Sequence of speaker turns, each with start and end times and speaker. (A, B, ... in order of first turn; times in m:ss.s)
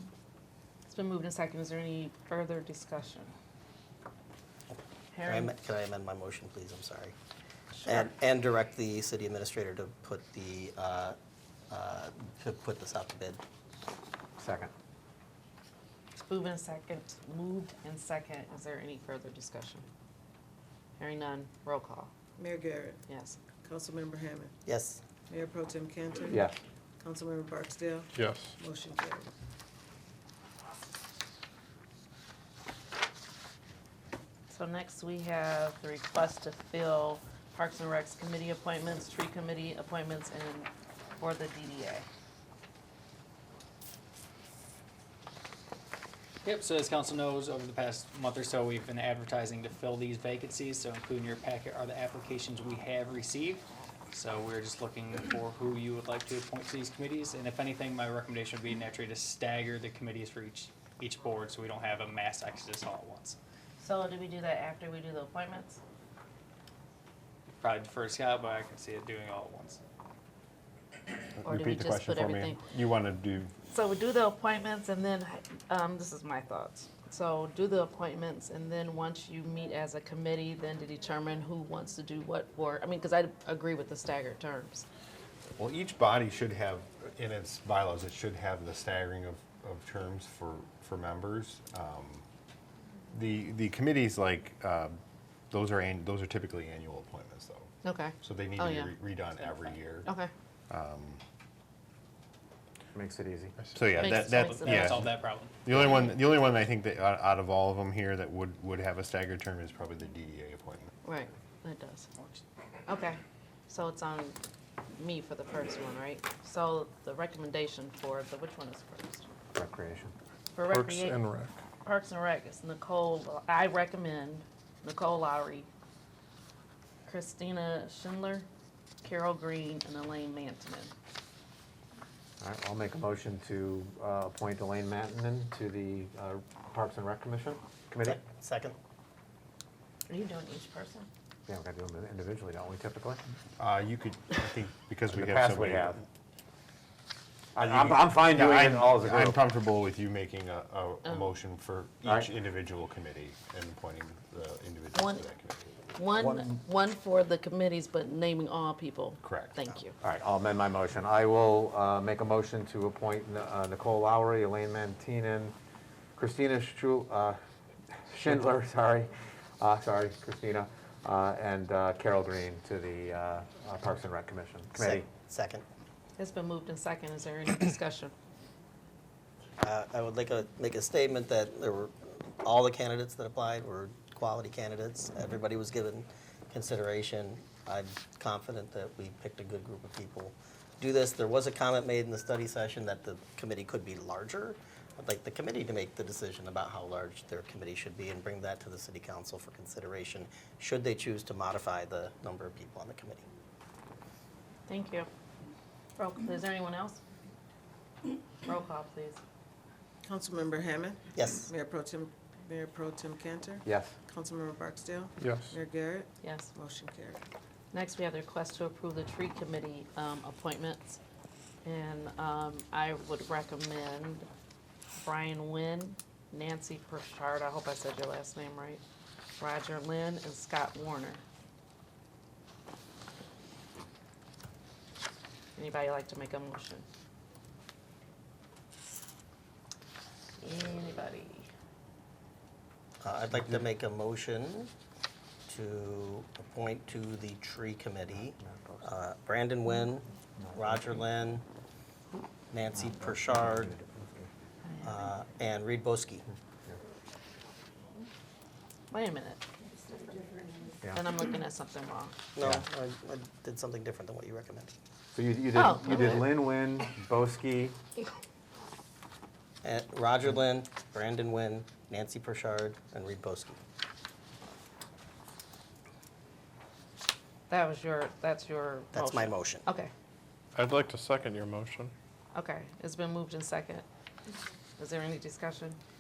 0:00.8-0:03.3 A
0:04.7-0:07.1 B
0:05.1-0:05.5 A
0:07.8-0:08.1 A
0:07.8-0:11.2 B
0:11.7-0:13.4 B
0:14.4-0:14.7 C
0:16.2-0:19.8 A
0:21.0-0:22.1 A
0:22.4-0:23.0 D
0:23.1-0:23.4 A
0:23.6-0:24.5 D
0:24.6-0:25.0 B
0:25.3-0:26.5 D
0:26.3-0:26.5 C
0:27.0-0:28.1 D
0:28.1-0:28.5 E
0:28.6-0:29.3 D
0:34.5-0:42.1 A
0:46.4-1:03.4 F
1:03.8-1:05.8 A
1:07.6-1:09.8 F
1:11.4-1:13.6 G
1:11.4-1:12.6 A
1:13.7-1:24.9 A
1:25.6-1:32.2 G
1:33.1-1:35.0 G
1:35.5-1:37.7 G
1:37.8-1:39.0 A
1:38.2-1:40.1 G
1:40.0-1:40.3 A
1:40.7-1:41.2 G
1:43.0-1:43.6 C
1:43.7-1:50.9 G
1:44.0-1:44.9 A
1:44.3-1:45.6 F
1:51.0-1:52.1 A
1:52.9-1:54.4 A
1:54.9-1:59.3 A
1:59.6-2:00.1 C
2:00.5-2:01.2 A
2:00.7-2:01.6 E
2:01.8-2:05.7 A
2:07.1-2:08.5 A
2:09.0-2:10.9 A
2:12.4-2:18.2 C
2:18.0-2:18.8 B
2:20.1-2:21.1 A
2:21.5-2:23.2 C
2:23.6-2:26.0 G
2:25.1-2:26.0 C
2:27.6-2:29.4 C
2:27.6-2:35.9 G
2:34.9-2:35.2 A
2:36.0-2:39.9 A
2:36.2-2:36.5 C
2:39.2-2:39.6 G
2:40.0-2:45.5 C
2:46.2-2:47.4 C
2:47.9-2:55.1 C
2:54.8-2:55.6 B
2:56.2-2:58.1 A
2:59.6-3:23.2 B
3:24.7-3:25.1 A
3:26.0-3:27.0 A
3:28.4-3:29.2 A
3:30.0-3:37.2 D
3:31.1-3:31.5 B
3:33.7-3:34.0 C
3:35.2-3:35.5 E
3:36.2-3:36.5 A
3:37.7-3:41.0 A
3:41.6-3:44.3 A
3:45.0-3:48.8 A
3:49.4-3:51.2 A
3:55.6-3:56.8 A
4:00.4-4:01.5 A
4:03.0-4:04.7 B
4:05.5-4:11.4 B
4:08.4-4:08.8 C
4:10.4-4:10.8 C
4:12.5-4:13.7 B
4:12.8-4:14.3 C
4:14.6-4:15.0 A
4:14.8-4:16.2 B
4:18.9-4:22.2 A
4:22.3-4:24.7 B
4:25.1-4:27.8 C
4:25.6-4:26.0 A
4:29.6-4:33.6 B
4:37.5-4:39.9 A
4:38.9-4:39.6 B
4:40.5-4:41.9 E
4:42.3-4:43.8 A
4:44.8-4:45.8 A